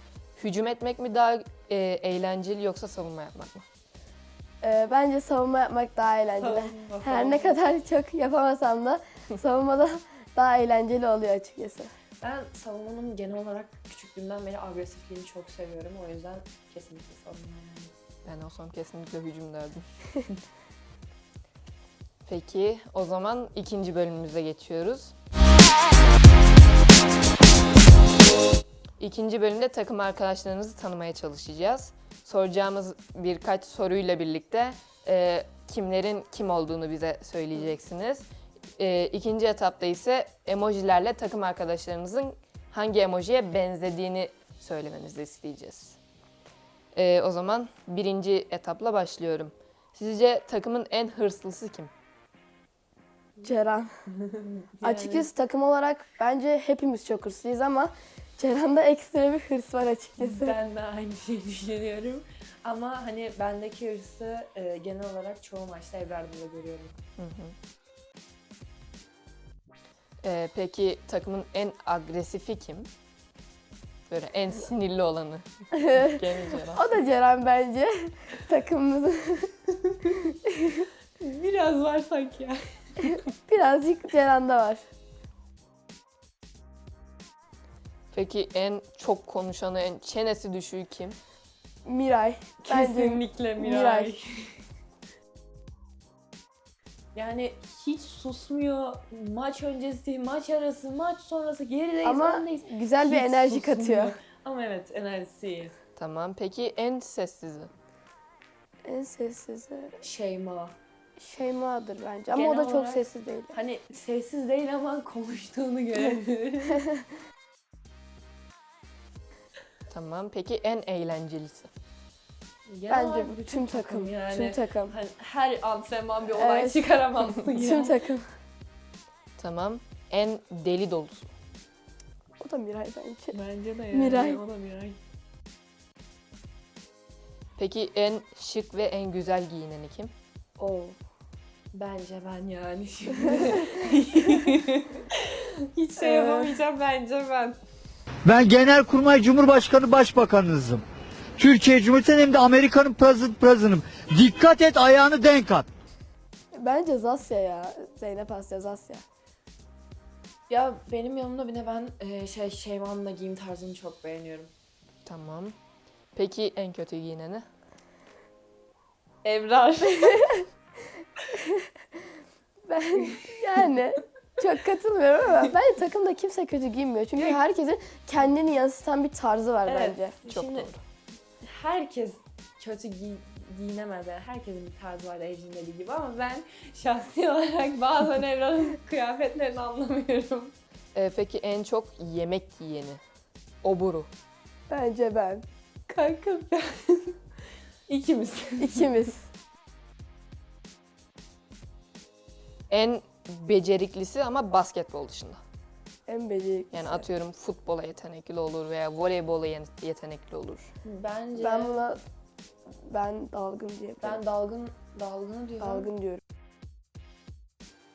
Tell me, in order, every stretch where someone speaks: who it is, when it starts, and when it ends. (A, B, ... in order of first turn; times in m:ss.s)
0:00.4-0:03.7 A
0:04.6-0:11.9 B
0:06.4-0:07.6 C
0:12.2-0:17.9 C
0:18.2-0:19.9 A
0:22.3-0:25.1 A
0:29.0-0:38.2 A
0:38.8-0:46.0 A
0:47.0-0:51.9 A
0:53.4-0:54.0 B
0:54.1-0:55.3 C
0:54.8-1:00.6 B
1:00.2-1:07.0 C
1:07.2-1:07.6 A
1:10.2-1:12.9 A
1:14.1-1:16.9 A
1:15.7-1:16.2 B
1:16.7-1:19.5 B
1:20.4-1:20.9 B
1:21.2-1:23.2 C
1:23.0-1:24.8 B
1:28.1-1:31.2 A
1:31.8-1:34.1 B
1:32.6-1:34.6 C
1:37.2-1:45.7 C
1:42.0-1:44.2 B
1:46.0-1:47.7 A
1:48.8-1:49.9 B
1:50.0-1:50.8 C
1:51.2-1:53.6 B
1:52.3-1:56.8 C
1:59.9-2:01.7 A
2:02.7-2:07.9 C
2:02.9-2:04.9 B
2:06.4-2:06.9 B
2:07.5-2:08.4 B
2:09.4-2:11.3 A
2:12.4-2:13.4 B
2:13.3-2:15.0 C
2:13.9-2:14.4 B
2:17.6-2:20.1 A
2:20.6-2:21.0 B
2:21.7-2:27.6 C
2:23.3-2:23.8 B
2:26.0-2:26.6 B
2:28.3-2:30.8 D
2:31.4-2:35.7 D
2:36.6-2:39.0 B
2:40.5-2:44.5 C
2:45.1-2:45.6 A
2:46.2-2:47.5 A
2:49.2-2:50.4 C
2:51.3-2:51.7 B
2:52.7-3:00.2 B
2:53.0-2:53.3 C
2:57.2-2:57.4 C
2:59.7-3:00.7 C
3:00.3-3:00.8 A
3:01.4-3:10.6 C
3:11.0-3:13.0 A
3:13.6-3:14.1 A
3:14.7-3:15.5 B
3:15.9-3:17.2 C
3:17.9-3:19.1 C
3:18.6-3:19.3 B
3:22.7-3:25.4 A
3:26.1-3:27.1 B
3:26.7-3:30.7 A
3:30.8-3:31.8 C
3:31.4-3:32.0 B
3:32.7-3:34.2 B
3:34.0-3:35.9 C
3:35.6-3:36.2 B